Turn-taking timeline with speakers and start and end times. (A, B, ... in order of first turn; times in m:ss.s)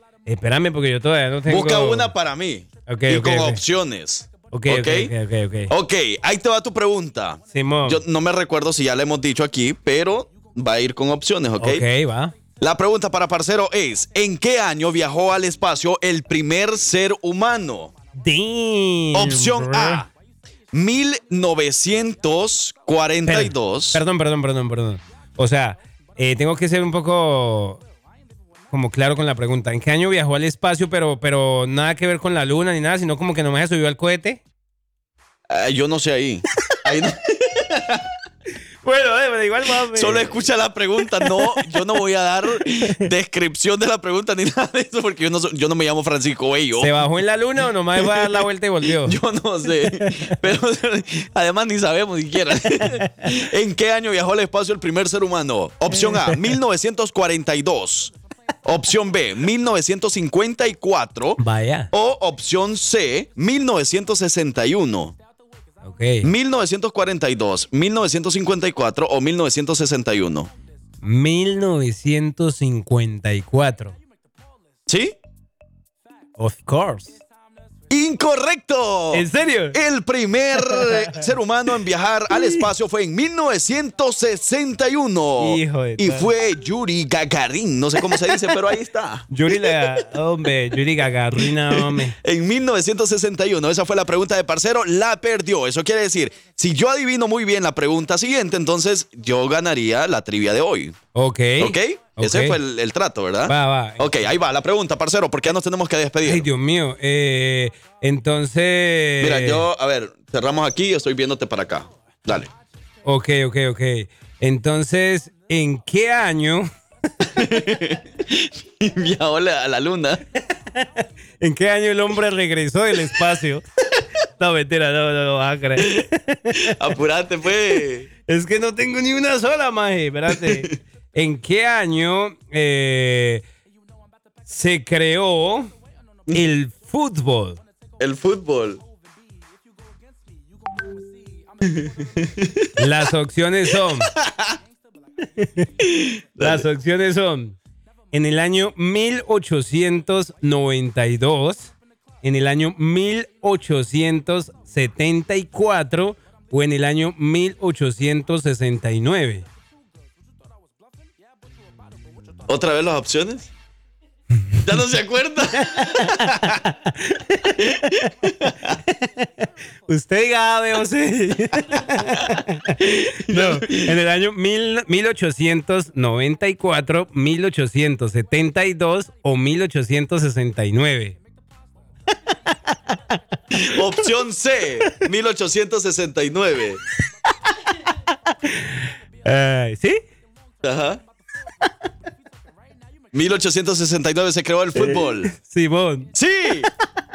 0:00.2-0:02.1 A
0:01.5-0:05.1 B
0:02.9-0:03.6 A
0:04.5-0:05.7 A
0:05.7-0:11.8 B
0:07.5-0:08.0 A
0:11.6-0:12.3 A
0:12.6-0:17.9 B
0:18.2-0:20.0 A
0:19.1-0:20.1 B
0:20.7-0:24.0 B
0:23.2-0:27.8 A
0:28.7-0:34.4 A
0:35.5-0:38.0 B
0:38.8-0:40.3 A
0:39.9-0:46.9 B
0:46.8-0:49.2 A
0:48.0-0:58.1 B
0:49.8-0:50.4 A
0:55.9-0:56.5 A
0:58.6-1:01.4 B
1:01.4-1:01.9 A
1:01.9-1:05.1 B
1:05.8-1:06.3 A
1:06.2-1:10.5 B
1:11.0-1:13.9 A
1:14.9-1:15.2 B
1:16.4-1:17.2 A
1:17.9-1:30.0 B
1:19.1-1:19.8 A
1:20.6-1:21.2 A
1:22.3-1:22.6 A
1:25.4-1:26.3 A
1:28.1-1:28.4 A
1:29.3-1:32.2 A
1:31.4-1:41.0 B
1:41.1-1:42.6 A
1:41.6-1:46.5 B
1:43.5-1:44.3 A
1:46.2-1:49.6 A
1:49.2-1:52.5 B
1:53.0-1:56.7 A
1:57.2-1:57.5 A
1:57.2-2:00.2 B
2:00.7-2:03.6 A
2:04.4-2:06.7 A
2:06.6-2:08.1 B
2:08.3-2:13.4 A
2:10.3-2:10.8 B
2:14.5-2:15.7 A
2:16.3-2:17.6 A
2:18.0-2:18.8 B
2:21.8-2:22.7 B
2:22.8-2:24.1 A
2:23.8-2:24.6 B
2:25.4-2:25.7 A
2:26.0-2:26.6 B
2:26.4-2:27.5 A
2:28.1-2:31.7 A
2:32.2-2:39.4 A
2:42.5-2:43.5 B
2:44.6-2:46.6 B
2:45.6-2:48.1 A
2:47.6-2:48.8 B
2:49.9-3:01.2 A
2:51.8-2:53.9 B
3:03.5-3:06.8 B
3:08.4-3:10.0 A
3:10.6-3:11.0 B
3:13.1-3:15.3 B
3:14.7-3:16.1 A
3:16.1-3:16.7 B